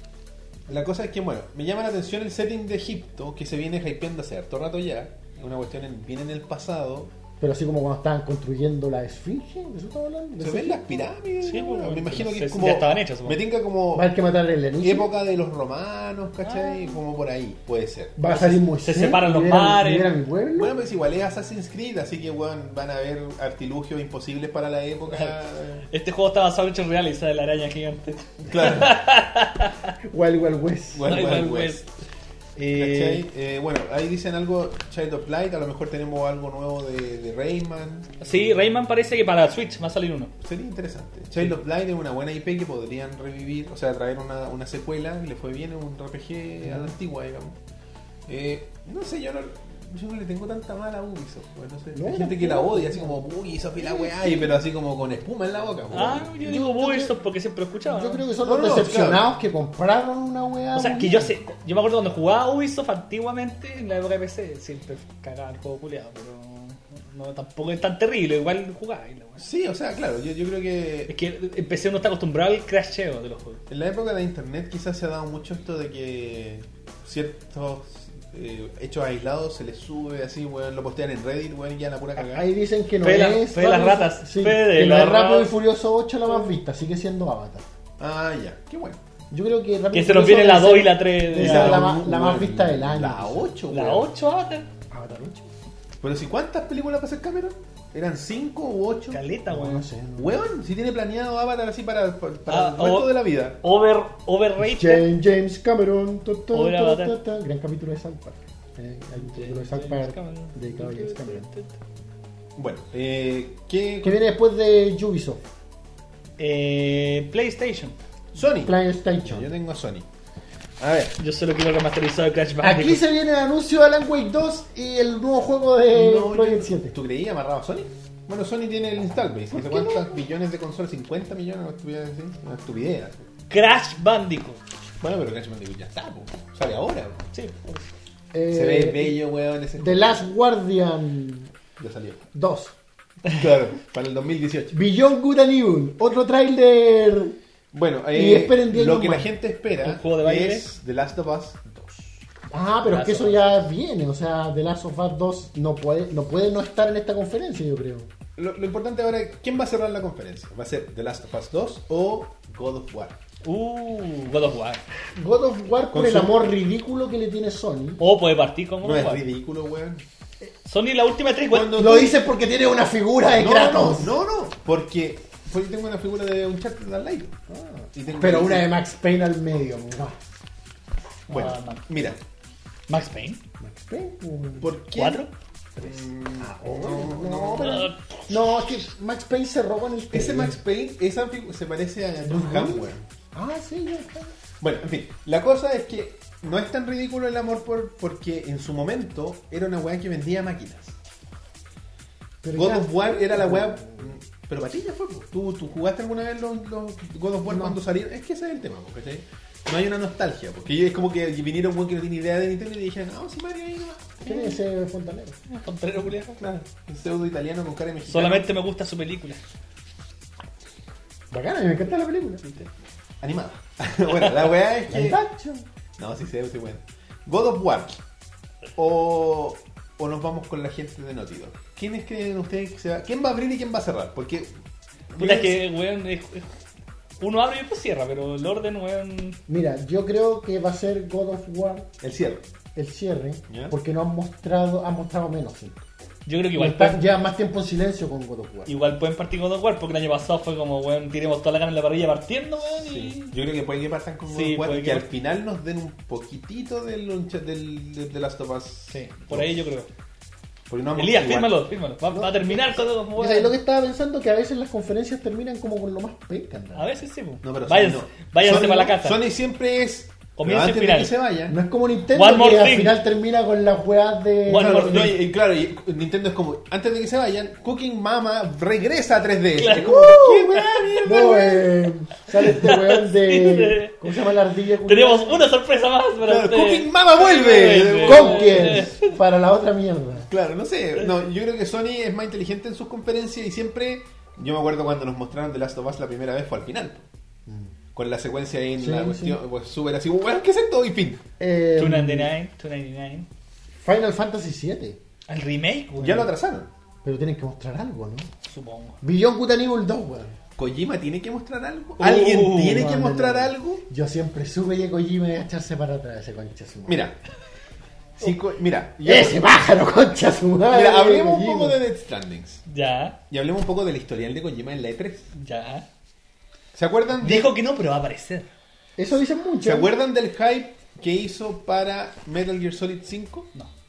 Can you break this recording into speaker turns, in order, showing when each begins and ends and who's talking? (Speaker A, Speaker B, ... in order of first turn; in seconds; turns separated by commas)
Speaker A: 0.7-7.1, Speaker B: 7.4-10.8, Speaker A: 10.4-14.1, Speaker C: 11.4-13.4, Speaker B: 13.9-15.1, Speaker A: 14.8-18.2, Speaker C: 16.4-17.0, Speaker B: 18.2-20.7, Speaker C: 18.3-20.1, Speaker A: 20.5-25.9, Speaker C: 25.9-29.9, Speaker A: 28.4-29.0, Speaker B: 30.1-31.2, Speaker A: 30.9-31.8, Speaker C: 31.0-31.9, Speaker C: 32.6-33.2, Speaker A: 32.7-38.1, Speaker C: 38.2-40.3, Speaker A: 40.4-47.6, Speaker A: 48.3-56.3, Speaker B: 51.9-54.5, Speaker C: 55.9-58.2, Speaker B: 56.4-57.1, Speaker B: 57.9-61.3, Speaker A: 58.4-59.3, Speaker C: 60.7-69.5, Speaker A: 69.4-71.1, Speaker C: 71.1-73.6, Speaker A: 73.7-82.5, Speaker B: 82.2-87.7, Speaker C: 83.0-85.5, Speaker A: 88.0-89.0, Speaker B: 89.3-93.5, Speaker C: 89.9-91.9, Speaker A: 91.3-94.1, Speaker C: 93.7-94.7, Speaker B: 94.9-95.5, Speaker A: 96.0-99.2, Speaker C: 99.1-99.9, Speaker B: 99.5-100.4, Speaker A: 100.2-103.6, Speaker C: 102.5-105.0, Speaker B: 104.6-111.5, Speaker C: 106.5-107.2, Speaker C: 109.2-111.7, Speaker A: 112.5-114.2, Speaker B: 114.0-115.4, Speaker C: 116.4-118.0, Speaker A: 118.3-120.0, Speaker B: 118.6-119.5, Speaker A: 120.8-121.2, Speaker C: 121.2-123.0, Speaker B: 122.6-126.9, Speaker A: 125.9-133.2, Speaker B: 129.5-130.2, Speaker C: 133.5-134.6, Speaker A: 135.0-137.2, Speaker C: 137.3-137.9, Speaker B: 138.3-139.2, Speaker A: 138.5-140.2, Speaker B: 139.8-141.5, Speaker A: 141.8-142.2, Speaker B: 142.3-142.7, Speaker A: 143.3-144.7, Speaker B: 144.7-147.3, Speaker A: 147.7-152.1, Speaker B: 148.1-149.3, Speaker C: 149.8-150.7, Speaker B: 152.5-158.1, Speaker C: 152.8-153.6, Speaker A: 158.4-163.2, Speaker C: 163.4-164.8, Speaker B: 165.2-168.0, Speaker A: 165.9-166.5, Speaker C: 168.0-169.2, Speaker A: 168.8-170.0, Speaker C: 170.6-171.8, Speaker A: 171.5-172.2, Speaker B: 171.7-174.2, Speaker A: 173.3-177.3, Speaker B: 177.5-180.2, Speaker A: 177.9-178.7, Speaker C: 181.3-182.1, Speaker A: 181.3-182.2, Speaker C: 182.9-183.4, Speaker B: 183.6-184.7, Speaker A: 184.6-185.2, Speaker C: 184.9-185.3, Speaker B: 185.8-190.6, Speaker A: 185.8-187.9, Speaker C: 187.6-188.0, Speaker A: 190.1-193.1, Speaker B: 192.2-194.3, Speaker A: 194.6-201.0, Speaker B: 202.4-204.1, Speaker A: 202.5-214.5, Speaker B: 207.5-207.8, Speaker B: 214.2-215.4, Speaker C: 215.5-216.4, Speaker A: 216.3-218.5, Speaker C: 218.1-219.4, Speaker B: 221.3-222.6, Speaker A: 223.2-225.2, Speaker B: 224.9-225.7, Speaker A: 226.0-228.0, Speaker A: 228.7-234.5, Speaker A: 235.1-235.6, Speaker C: 235.2-236.5, Speaker C: 237.2-239.4, Speaker B: 239.5-241.9, Speaker A: 242.0-242.4, Speaker B: 242.7-245.8, Speaker A: 243.5-243.7, Speaker C: 246.2-247.0, Speaker B: 246.6-248.7, Speaker C: 248.7-253.3, Speaker A: 252.7-259.5, Speaker C: 254.3-255.1, Speaker C: 258.9-259.9, Speaker A: 260.7-261.6, Speaker C: 260.9-263.5, Speaker B: 262.1-266.9, Speaker C: 266.8-269.2, Speaker A: 267.4-271.6, Speaker C: 270.4-271.1, Speaker B: 271.5-275.1, Speaker C: 272.1-272.9, Speaker C: 274.5-275.1, Speaker A: 274.5-281.6, Speaker C: 279.6-281.3, Speaker B: 281.0-285.5, Speaker C: 282.4-284.3, Speaker C: 284.9-289.1, Speaker A: 286.2-288.9, Speaker B: 288.0-290.3, Speaker A: 290.3-297.1, Speaker B: 297.5-297.7, Speaker A: 297.9-301.2, Speaker B: 298.8-299.4, Speaker B: 301.4-302.3, Speaker C: 301.8-303.3, Speaker B: 303.8-305.0, Speaker C: 305.3-306.3, Speaker A: 306.0-306.7, Speaker B: 307.0-308.3, Speaker C: 308.4-309.0, Speaker B: 309.0-310.4, Speaker A: 310.6-313.8, Speaker C: 312.0-312.9, Speaker B: 312.7-317.1, Speaker A: 316.9-317.2, Speaker A: 318.2-319.4, Speaker B: 319.0-321.8, Speaker A: 320.7-322.6, Speaker C: 322.7-323.2, Speaker A: 323.3-325.3, Speaker C: 325.3-325.9, Speaker A: 326.7-327.5, Speaker C: 327.2-328.5, Speaker B: 329.0-329.9, Speaker A: 329.6-333.5